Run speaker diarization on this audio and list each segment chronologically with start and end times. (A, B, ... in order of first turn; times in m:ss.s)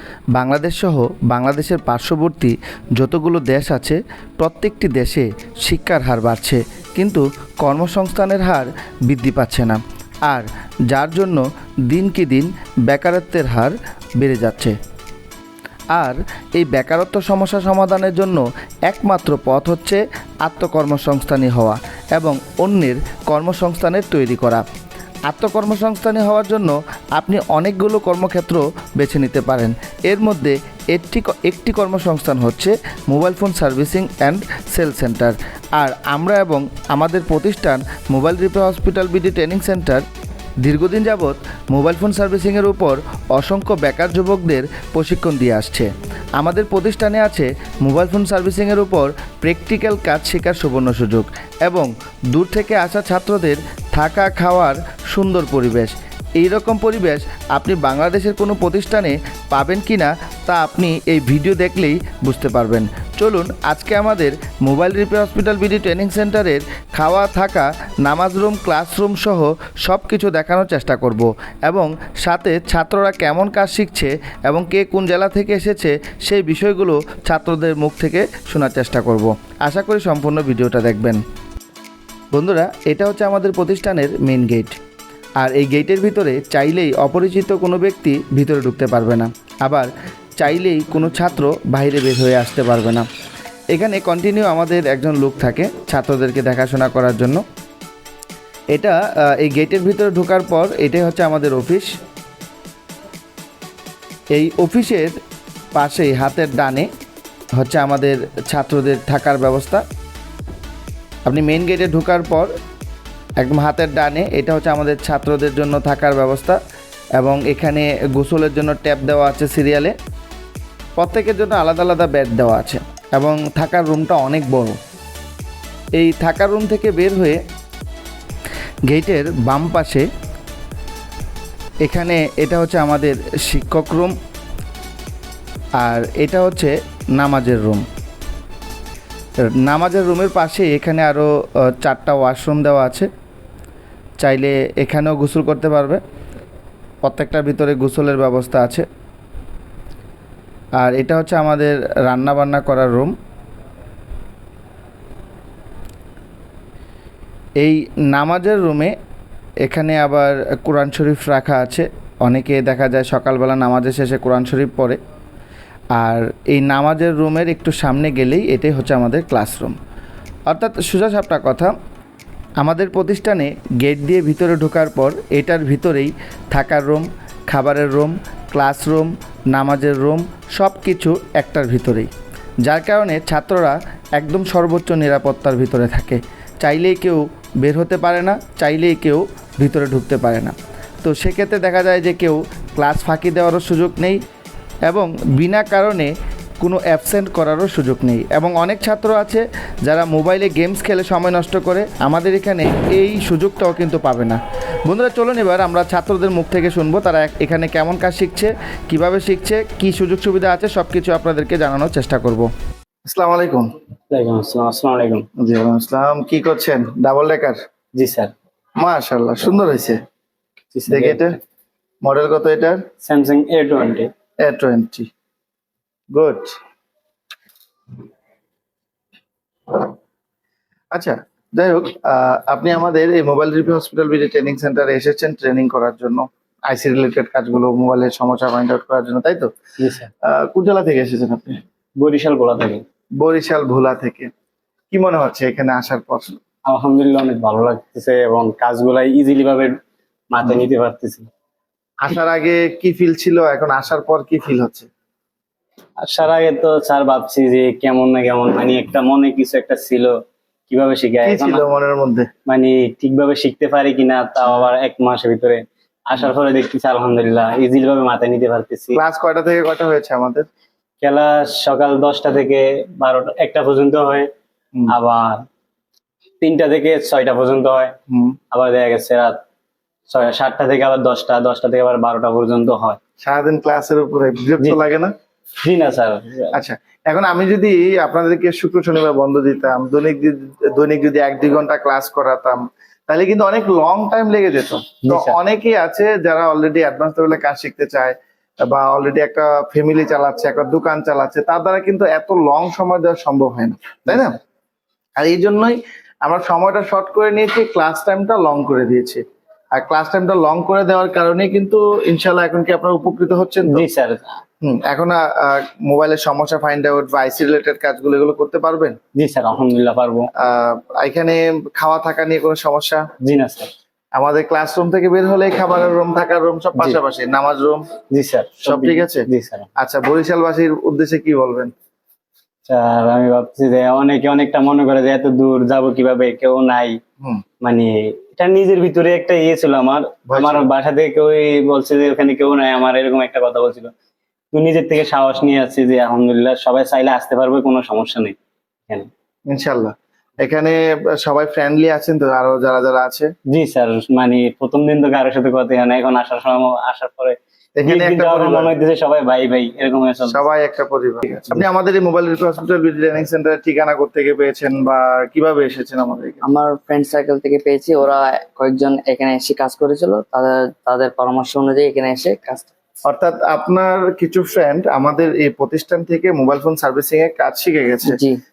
0:00.4-0:14.7 A
0:15.9-0:24.6 A
0:25.3-0:40.0 A
0:40.6-1:21.2 A
1:22.3-1:24.8 A
1:25.4-1:33.0 A
1:33.7-1:37.4 A
1:38.7-1:41.9 A
1:44.3-1:45.1 A
1:45.8-1:46.9 A
1:47.6-1:49.8 A
1:51.2-1:52.5 A
1:53.4-1:56.6 A
1:57.2-1:59.9 A
2:01.0-2:04.8 A
2:06.0-2:07.4 A
2:08.9-2:10.0 A
2:11.8-2:14.1 A
2:15.8-2:17.8 A
2:19.5-2:21.3 A
2:21.8-2:23.1 A
2:24.2-2:26.0 A
2:27.0-2:28.8 A
2:30.8-2:33.1 A
2:37.6-2:38.9 A
2:39.6-2:45.0 A
2:46.0-2:49.8 A
2:50.5-2:51.7 A
2:52.6-3:02.1 A
3:02.6-3:14.2 A
3:14.9-3:32.5 A
3:33.1-3:33.7 A
3:34.1-3:35.2 B
3:35.4-3:37.6 A
3:38.0-3:38.3 B
3:38.8-3:40.0 A
3:40.7-3:41.2 B
3:40.9-3:41.4 A
3:42.0-3:42.8 A
3:43.0-3:44.1 B
3:44.4-3:45.1 A
3:46.1-3:46.4 A
3:50.9-3:59.5 A
3:59.8-4:00.1 B
4:00.3-4:01.6 A
4:02.0-4:02.8 B
4:03.2-4:04.3 A
4:04.9-4:06.4 A
4:06.6-4:09.8 B
4:10.3-4:11.3 B
4:12.0-4:14.9 A
4:16.0-4:20.2 B
4:20.7-4:21.6 B
4:21.2-4:22.3 A
4:22.5-4:29.0 B
4:28.9-4:30.5 A
4:31.0-4:34.3 B
4:34.9-4:35.4 B
4:36.4-4:37.9 B
4:38.1-4:38.4 A
4:38.5-4:39.4 B
4:40.1-4:43.0 B
4:43.2-4:45.1 A
4:45.6-4:46.5 B
4:46.5-5:04.4 A
4:55.1-4:55.4 B
5:05.2-5:09.2 A
5:09.8-5:13.8 A
5:13.7-5:14.2 B
5:14.6-5:19.0 A
5:19.2-5:20.3 B
5:20.4-5:23.0 A
5:23.2-5:23.7 B
5:24.2-5:27.8 A
5:28.1-5:29.7 B
5:28.6-5:29.2 A
5:29.8-5:31.7 A
5:32.7-5:37.0 B
5:37.6-5:43.9 B
5:40.3-5:40.6 A
5:44.5-5:48.3 B
5:49.5-5:53.3 A
5:53.5-6:00.5 B
5:57.8-5:58.7 A
6:00.3-6:06.4 A
6:06.4-6:12.6 C
6:13.1-6:18.2 A
6:18.1-6:18.4 C